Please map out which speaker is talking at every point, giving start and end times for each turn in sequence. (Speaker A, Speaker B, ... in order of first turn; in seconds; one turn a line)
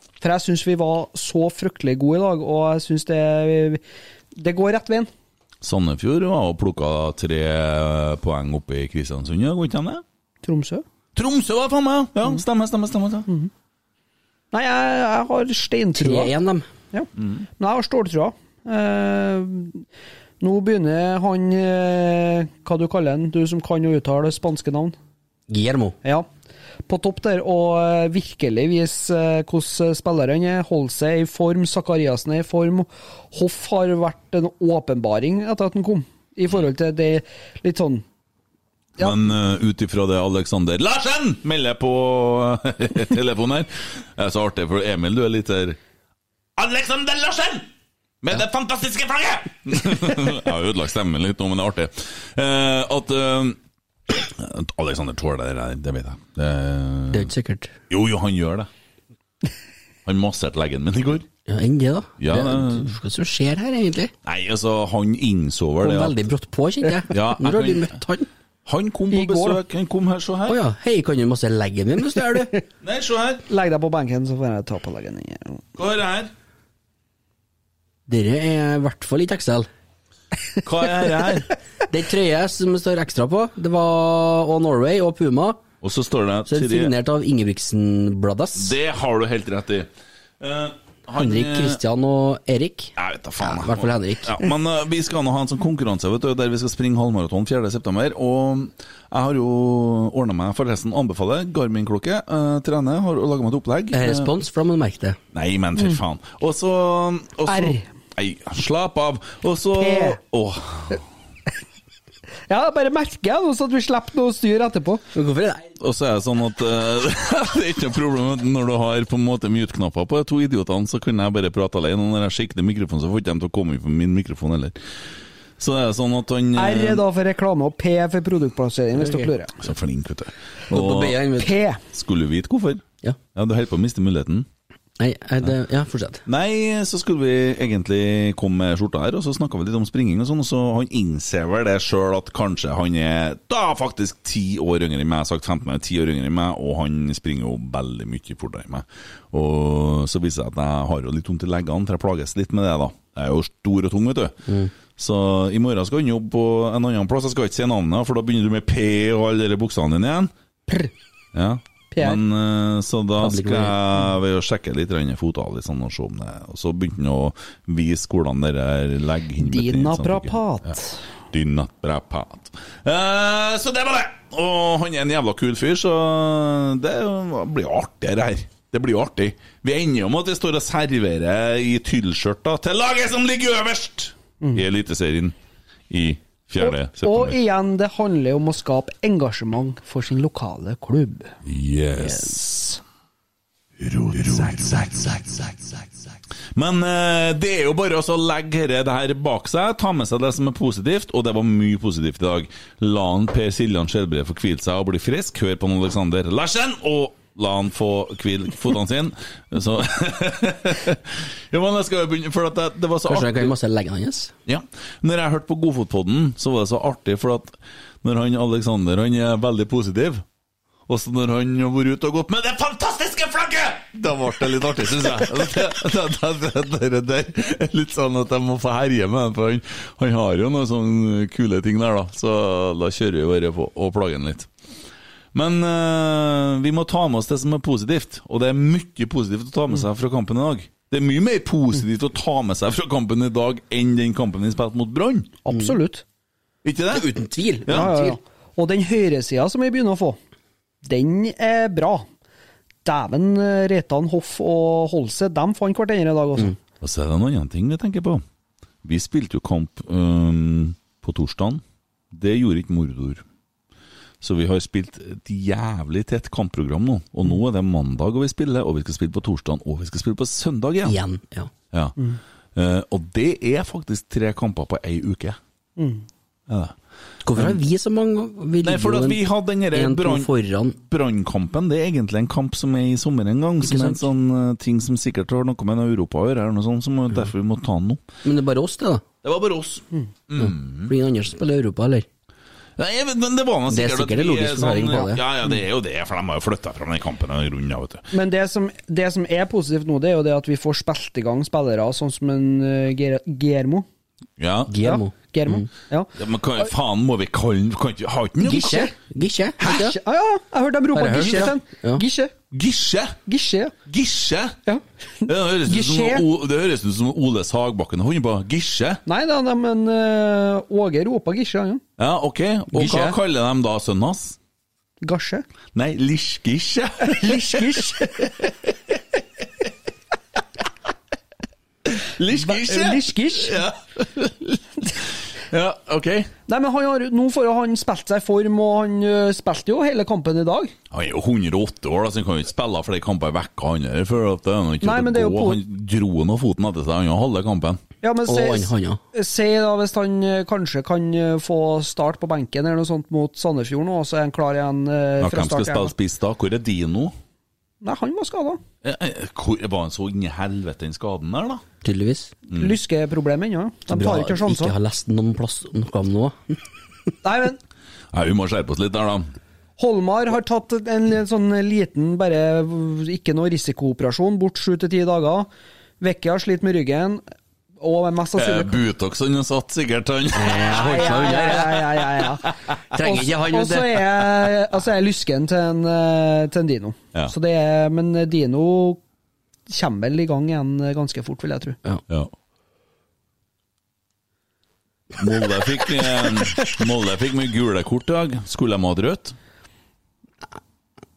Speaker A: 0.2-3.8
Speaker A: 4.3-5.1
Speaker B: 5.6-10.0
Speaker A: 10.4-10.8
Speaker B: 11.2-13.3
Speaker A: 14.5-16.4
Speaker C: 16.0-16.7
Speaker B: 17.2-17.4
Speaker A: 17.6-19.8
Speaker A: 20.4-24.9
Speaker C: 25.5-26.0
Speaker A: 26.9-38.0
Speaker A: 39.0-39.3
Speaker B: 39.0-45.8
Speaker B: 46.6-47.7
Speaker B: 48.2-53.6
Speaker B: 54.1-57.3
Speaker C: 57.1-57.7
Speaker B: 57.9-58.7
Speaker B: 60.1-61.3
Speaker C: 61.5-64.1
Speaker B: 62.2-63.0
Speaker B: 64.2-66.2
Speaker C: 65.8-68.3
Speaker B: 67.1-68.0
Speaker B: 68.7-70.6
Speaker A: 69.1-69.6
Speaker C: 70.5-72.5
Speaker B: 72.8-73.5
Speaker A: 73.5-75.6
Speaker B: 75.8-76.3
Speaker C: 78.1-79.7
Speaker B: 80.6-81.5
Speaker C: 81.9-85.6
Speaker B: 85.8-86.9
Speaker C: 86.5-88.8
Speaker B: 88.5-91.8
Speaker C: 91.2-94.5
Speaker B: 93.0-104.3
Speaker C: 103.9-105.2
Speaker B: 105.3-111.0
Speaker A: 107.5-107.9
Speaker A: 109.8-110.2
Speaker A: 112.5-115.0
Speaker C: 115.1-115.7
Speaker B: 115.8-124.8
Speaker B: 125.6-127.0
Speaker A: 126.6-129.6
Speaker C: 129.0-129.3
Speaker B: 129.6-131.2
Speaker C: 130.7-131.5
Speaker A: 131.4-131.8
Speaker B: 131.9-132.8
Speaker B: 133.3-134.5
Speaker C: 135.0-136.2
Speaker B: 136.3-154.4
Speaker C: 154.5-154.7
Speaker B: 154.9-160.3
Speaker B: 161.3-170.7
Speaker A: 161.9-162.2
Speaker C: 163.2-163.8
Speaker A: 169.4-171.0
Speaker B: 171.3-185.3
Speaker B: 185.9-187.4
Speaker A: 186.6-191.3
Speaker B: 191.4-192.8
Speaker A: 192.0-192.4
Speaker B: 193.8-195.2
Speaker B: 196.6-213.6
Speaker C: 213.1-214.3
Speaker B: 214.5-220.2
Speaker B: 220.9-234.5
Speaker B: 235.3-245.4
Speaker A: 245.4-246.0
Speaker B: 246.6-247.1
Speaker C: 246.9-248.2
Speaker B: 247.7-248.0
Speaker A: 247.7-250.2
Speaker A: 250.8-252.1
Speaker A: 252.8-256.6
Speaker B: 256.8-258.2
Speaker B: 258.8-263.2
Speaker B: 264.2-271.0
Speaker C: 270.9-271.5
Speaker B: 272.6-275.4
Speaker A: 275.8-276.1
Speaker B: 276.5-276.8
Speaker C: 277.2-280.8
Speaker B: 277.3-277.6
Speaker B: 278.6-288.0
Speaker C: 283.6-284.1
Speaker C: 288.2-289.0
Speaker B: 289.2-290.9
Speaker C: 290.4-292.1
Speaker B: 292.8-298.1
Speaker C: 293.7-295.2
Speaker A: 298.1-303.9
Speaker B: 304.4-304.8
Speaker C: 304.7-305.7
Speaker A: 304.8-306.1
Speaker B: 306.2-308.9
Speaker C: 308.4-310.0
Speaker A: 308.5-308.9
Speaker A: 309.6-312.3
Speaker C: 310.9-312.0
Speaker B: 311.1-311.5
Speaker B: 312.5-313.2
Speaker A: 313.3-313.8
Speaker B: 313.9-314.6
Speaker A: 314.7-316.2
Speaker B: 315.3-319.0
Speaker A: 319.1-321.8
Speaker B: 322.0-324.4
Speaker A: 322.7-323.2
Speaker A: 325.0-325.5
Speaker B: 325.7-329.0
Speaker A: 327.1-328.3
Speaker B: 331.9-336.3
Speaker A: 332.3-333.6
Speaker A: 336.5-340.8
Speaker B: 340.9-347.8
Speaker A: 344.8-345.6
Speaker A: 348.0-355.9
Speaker C: 348.2-349.0
Speaker B: 355.2-357.1
Speaker A: 357.8-358.6
Speaker B: 358.8-361.6
Speaker C: 361.8-362.3
Speaker B: 362.5-362.8
Speaker A: 362.5-364.8
Speaker C: 363.9-366.6
Speaker A: 367.2-367.6
Speaker B: 368.1-369.3
Speaker A: 369.8-375.5
Speaker A: 376.0-377.2
Speaker A: 377.8-378.8
Speaker B: 378.4-382.2
Speaker C: 380.3-381.9
Speaker A: 380.6-382.4
Speaker C: 382.9-384.5
Speaker A: 383.0-389.0
Speaker A: 389.7-391.8
Speaker B: 395.2-399.4